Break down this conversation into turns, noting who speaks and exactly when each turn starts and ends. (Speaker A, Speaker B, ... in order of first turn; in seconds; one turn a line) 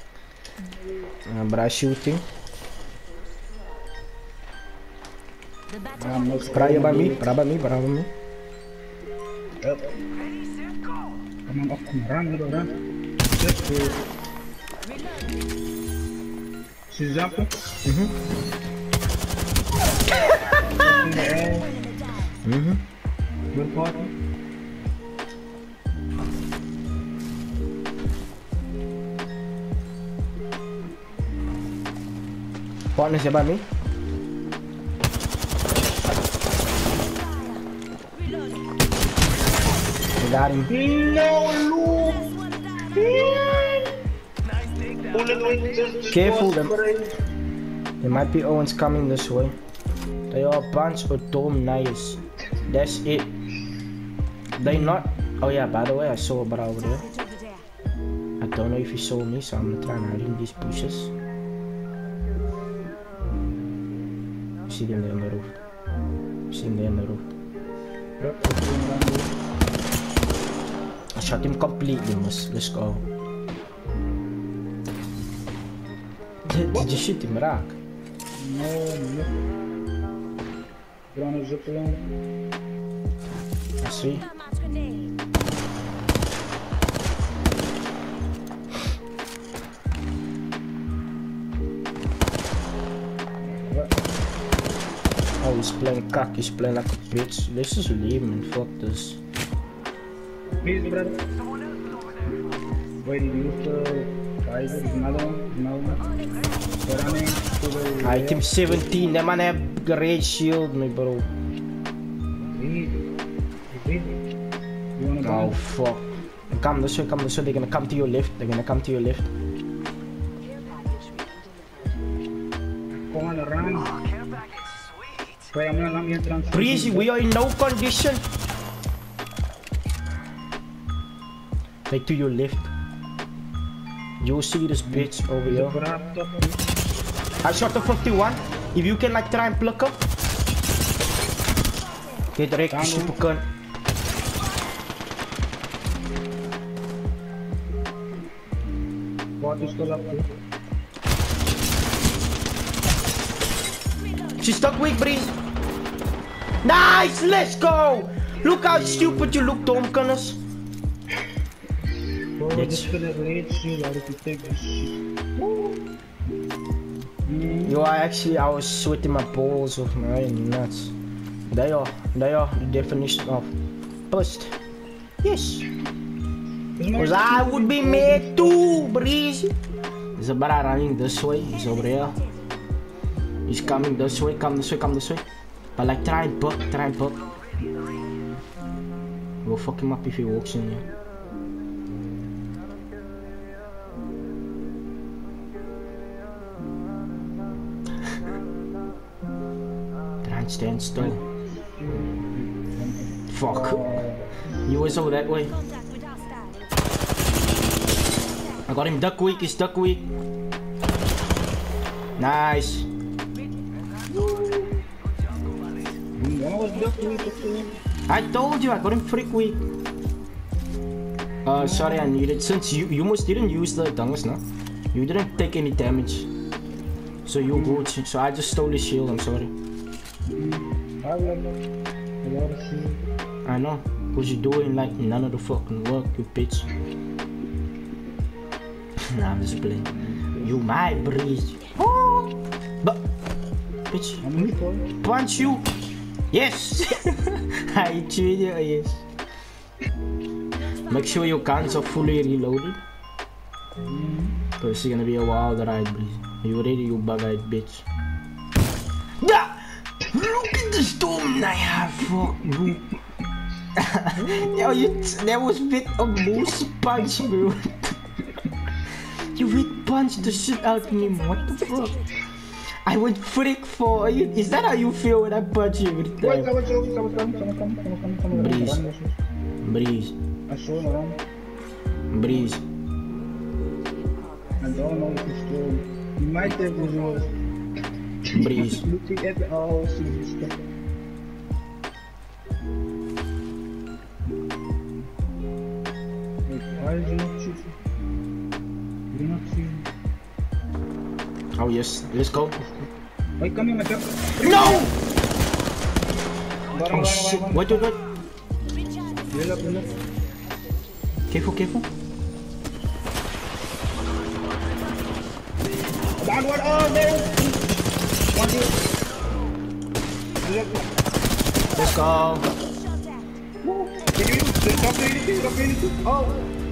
Speaker A: 1.2-2.2
Speaker B: 5.9-7.3
Speaker A: 6.5-8.1
Speaker B: 9.6-10.0
Speaker B: 11.5-12.7
Speaker B: 13.3-14.0
Speaker B: 16.9-17.5
Speaker A: 17.8-18.1
Speaker B: 20.7-21.7
Speaker A: 22.4-22.8
Speaker B: 23.5-24.1
Speaker A: 32.9-33.6
Speaker A: 40.2-40.7
Speaker B: 40.7-43.9
Speaker B: 45.1-47.1
Speaker A: 46.1-46.7
Speaker A: 48.0-49.5
Speaker A: 50.3-53.3
Speaker A: 54.6-57.1
Speaker B: 54.6-55.0
Speaker A: 58.4-61.1
Speaker A: 64.7-65.5
Speaker A: 66.5-67.2
Speaker B: 68.2-69.3
Speaker A: 71.1-73.0
Speaker A: 76.5-77.8
Speaker B: 76.7-77.0
Speaker B: 78.4-79.4
Speaker B: 81.1-82.0
Speaker A: 83.8-84.3
Speaker B: 93.5-93.9
Speaker A: 95.4-99.2
Speaker B: 100.6-101.2
Speaker B: 103.0-106.0
Speaker B: 106.8-109.1
Speaker A: 108.0-111.3
Speaker B: 112.5-113.0
Speaker B: 113.7-114.2
Speaker B: 115.0-115.6
Speaker A: 115.2-119.3
Speaker B: 123.0-124.0
Speaker B: 125.5-127.1
Speaker A: 126.5-128.2
Speaker A: 131.9-132.7
Speaker A: 134.2-135.8
Speaker B: 134.8-136.6
Speaker A: 137.4-140.0
Speaker A: 142.3-143.4
Speaker B: 142.7-143.3
Speaker B: 149.4-150.3
Speaker A: 154.4-155.3
Speaker A: 156.6-160.4
Speaker B: 158.7-159.3
Speaker B: 162.4-165.8
Speaker A: 162.5-162.9
Speaker B: 167.2-167.8
Speaker A: 167.7-170.9
Speaker A: 171.5-173.5
Speaker A: 174.1-174.5
Speaker A: 175.2-175.6
Speaker B: 176.8-179.0
Speaker A: 176.9-179.5
Speaker A: 180.2-182.2
Speaker A: 183.5-185.2
Speaker B: 183.6-183.9
Speaker A: 185.8-187.2
Speaker A: 189.4-190.9
Speaker A: 200.2-201.2
Speaker B: 201.0-204.3
Speaker A: 203.3-204.0
Speaker A: 204.7-205.6
Speaker A: 208.7-210.1
Speaker A: 212.2-212.9
Speaker B: 214.1-214.8
Speaker B: 216.2-217.7
Speaker A: 218.1-219.6
Speaker A: 221.4-224.4
Speaker B: 221.5-222.1
Speaker A: 224.9-226.3
Speaker A: 227.2-229.5
Speaker B: 227.5-227.9
Speaker B: 230.3-231.5
Speaker B: 232.2-233.0
Speaker A: 233.4-236.7
Speaker A: 239.1-243.0
Speaker B: 239.9-240.6
Speaker A: 243.9-245.6
Speaker B: 244.2-244.9
Speaker A: 246.3-249.0
Speaker A: 250.9-252.8
Speaker B: 253.8-254.4
Speaker A: 254.6-257.8
Speaker A: 259.2-262.8
Speaker A: 263.8-267.9
Speaker B: 264.1-264.8
Speaker A: 269.3-272.0
Speaker A: 272.8-276.5
Speaker B: 276.2-279.2
Speaker A: 278.3-278.8
Speaker A: 279.6-280.1
Speaker B: 280.5-281.2
Speaker A: 282.1-282.6
Speaker B: 284.6-287.3
Speaker B: 288.3-290.5
Speaker A: 288.3-288.8
Speaker B: 296.5-297.7
Speaker B: 299.1-299.9
Speaker A: 301.6-302.6
Speaker B: 303.4-304.9
Speaker A: 304.4-304.9
Speaker B: 306.7-307.9
Speaker A: 306.9-308.0
Speaker B: 309.3-309.9
Speaker A: 311.3-311.9
Speaker B: 316.2-317.8
Speaker B: 318.3-318.8
Speaker B: 320.4-320.8
Speaker A: 321.7-322.5
Speaker B: 323.6-326.4